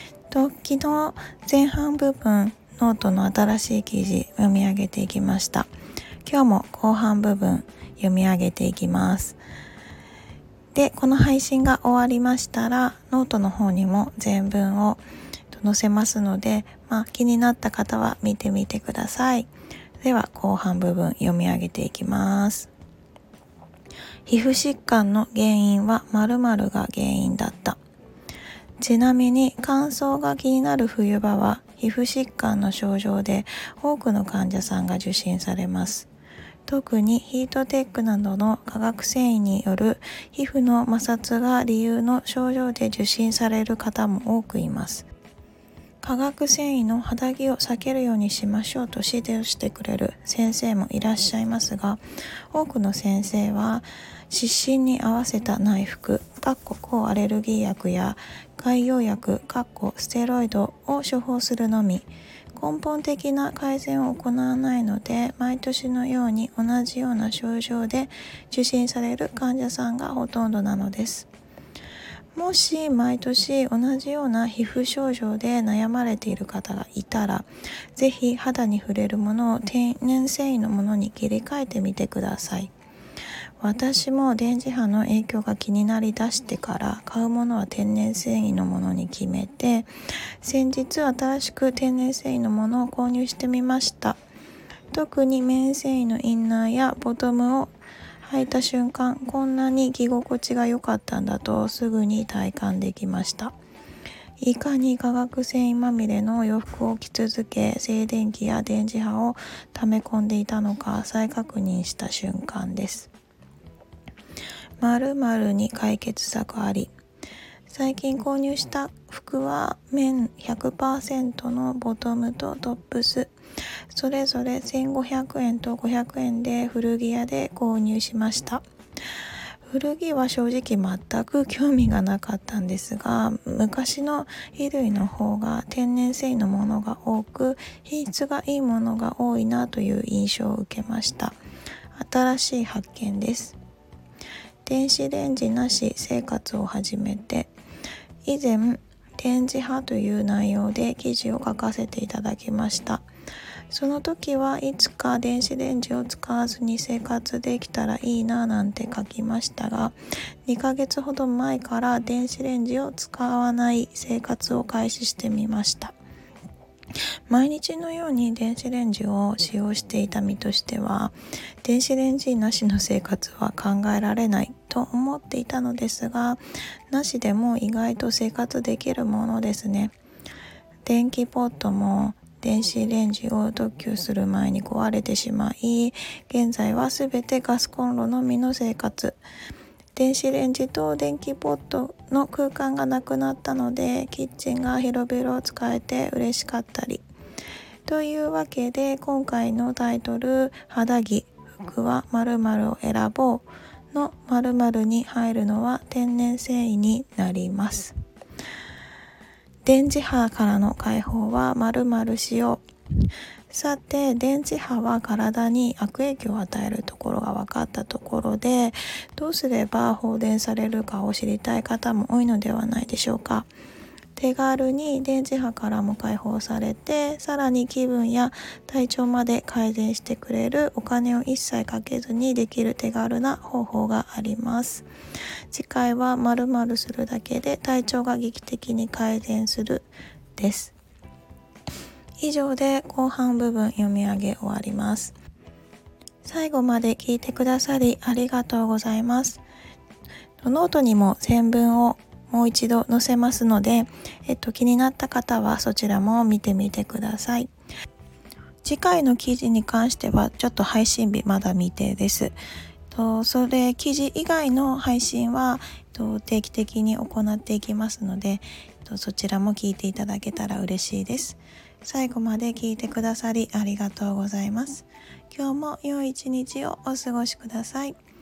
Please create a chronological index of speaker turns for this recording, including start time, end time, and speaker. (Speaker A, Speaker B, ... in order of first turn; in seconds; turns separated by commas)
Speaker A: 0.3-5.7, Speaker A: 6.2-9.4, Speaker A: 10.7-19.5, Speaker A: 20.0-22.7, Speaker A: 24.3-27.8, Speaker A: 28.8-36.1, Speaker A: 36.7-45.1, Speaker A: 46.0-52.0, Speaker A: 52.5-71.3, Speaker A: 72.3-82.7, Speaker A: 83.6-89.9, Speaker A: 90.4-94.2, Speaker A: 94.9-103.5, Speaker A: 104.4-113.1, Speaker A: 114.8-116.9, Speaker A: 117.7-123.3, Speaker A: 123.9-128.6, Speaker A: 129.7-141.4, Speaker A: 141.9-143.6, Speaker A: 144.7-147.5, Speaker A: 148.2-153.0, Speaker A: 153.7-159.9, Speaker A: 160.5-165.9, Speaker A: 167.3-179.9, Speaker A: 180.8-189.2, Speaker A: 189.9-197.0, Speaker A: 197.9-207.9, Speaker A: 209.7-212.6, Speaker A: 213.5-223.5, Speaker A: 224.2-234.9, Speaker A: 235.5-240.8, Speaker A: 242.2-245.1, Speaker A: 246.2-249.4, Speaker A: 250.4-257.5, Speaker A: 258.6-262.4, Speaker A: 262.9-278.0